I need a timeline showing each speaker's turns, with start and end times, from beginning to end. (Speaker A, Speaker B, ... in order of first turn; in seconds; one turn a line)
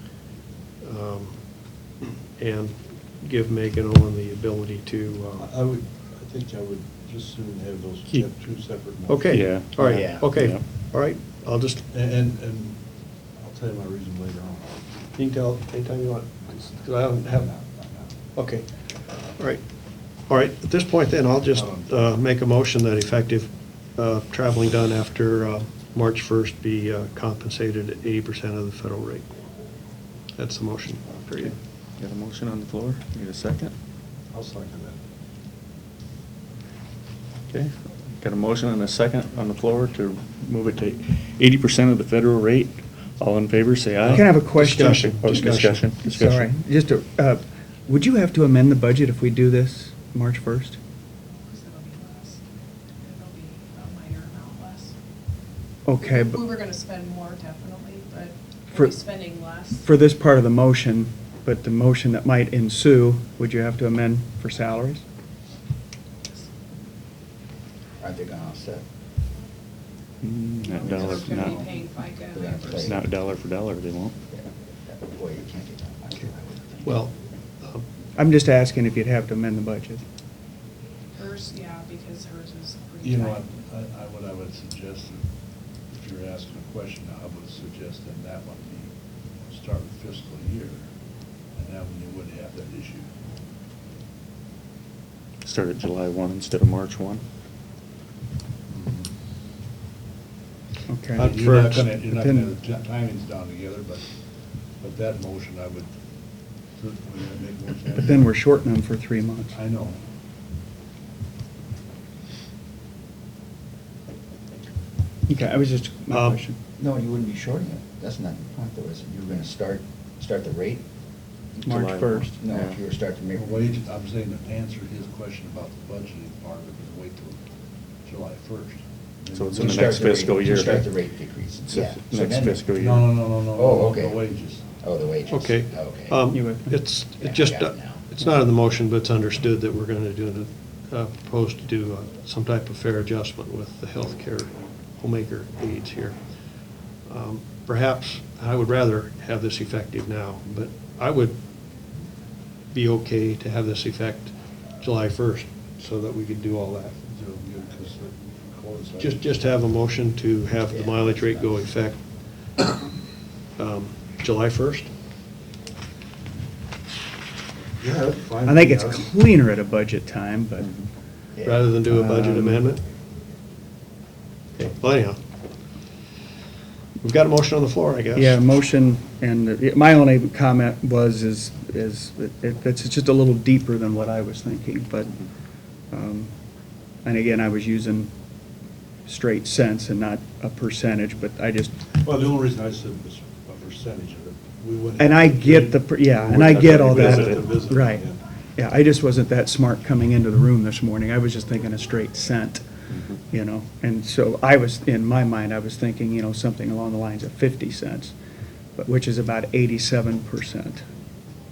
Speaker A: 0.8-5.5
Speaker B: 5.4-9.6
Speaker A: 9.1-11.8
Speaker C: 9.3-10.6
Speaker D: 9.8-10.2
Speaker B: 11.9-12.8
Speaker B: 13.3-14.8
Speaker A: 15.2-17.5
Speaker B: 17.3-18.1
Speaker A: 18.3-29.3
Speaker B: 21.5-22.1
Speaker A: 30.4-31.6
Speaker C: 31.4-33.7
Speaker B: 34.3-35.0
Speaker C: 37.5-46.6
Speaker A: 44.0-45.8
Speaker E: 44.1-45.1
Speaker E: 46.0-50.8
Speaker F: 51.5-52.4
Speaker F: 53.0-55.0
Speaker E: 55.8-56.4
Speaker F: 56.0-59.9
Speaker E: 58.7-59.1
Speaker E: 59.8-65.0
Speaker D: 68.0-68.8
Speaker C: 70.2-71.6
Speaker F: 70.6-73.0
Speaker D: 70.9-73.0
Speaker C: 72.8-74.2
Speaker D: 74.3-77.1
Speaker A: 76.8-77.8
Speaker E: 78.2-80.0
Speaker F: 81.1-83.4
Speaker B: 83.0-85.2
Speaker B: 85.9-90.8
Speaker B: 91.5-93.1
Speaker C: 95.4-97.2
Speaker B: 98.7-99.1
Speaker E: 100.9-102.5
Speaker A: 101.2-101.8
Speaker B: 101.2-104.1
Speaker B: 104.8-105.9
Speaker B: 106.7-108.3
Speaker E: 107.9-109.5
Speaker B: 109.5-110.0
Speaker E: 115.3-116.6
Speaker A: 116.1-116.4
Speaker D: 116.8-120.8
Speaker C: 121.5-122.8
Speaker E: 121.6-122.3
Speaker D: 122.4-123.8
Speaker B: 123.3-127.4
Speaker B: 128.0-130.1
Speaker C: 129.3-130.9
Speaker D: 129.6-132.7
Speaker C: 131.7-133.3
Speaker B: 132.8-134.8
Speaker D: 133.6-136.2
Speaker A: 135.3-151.4
Speaker E: 136.3-136.8
Speaker D: 137.2-138.0
Speaker A: 152.7-156.9
Speaker B: 157.0-159.2
Speaker A: 159.0-162.0
Speaker D: 160.7-161.6
Speaker A: 163.6-164.9
Speaker B: 167.8-169.1
Speaker E: 168.4-170.7
Speaker C: 170.6-170.9
Speaker D: 171.3-171.7
Speaker A: 171.4-172.8
Speaker E: 171.9-172.7
Speaker A: 174.6-175.2
Speaker A: 177.0-178.4
Speaker E: 178.2-185.3
Speaker E: 185.9-186.3
Speaker E: 187.0-188.1
Speaker E: 189.1-191.8
Speaker B: 191.9-198.2
Speaker E: 195.0-202.6
Speaker C: 196.2-197.8
Speaker C: 202.9-203.2
Speaker E: 203.2-208.2
Speaker E: 208.8-210.9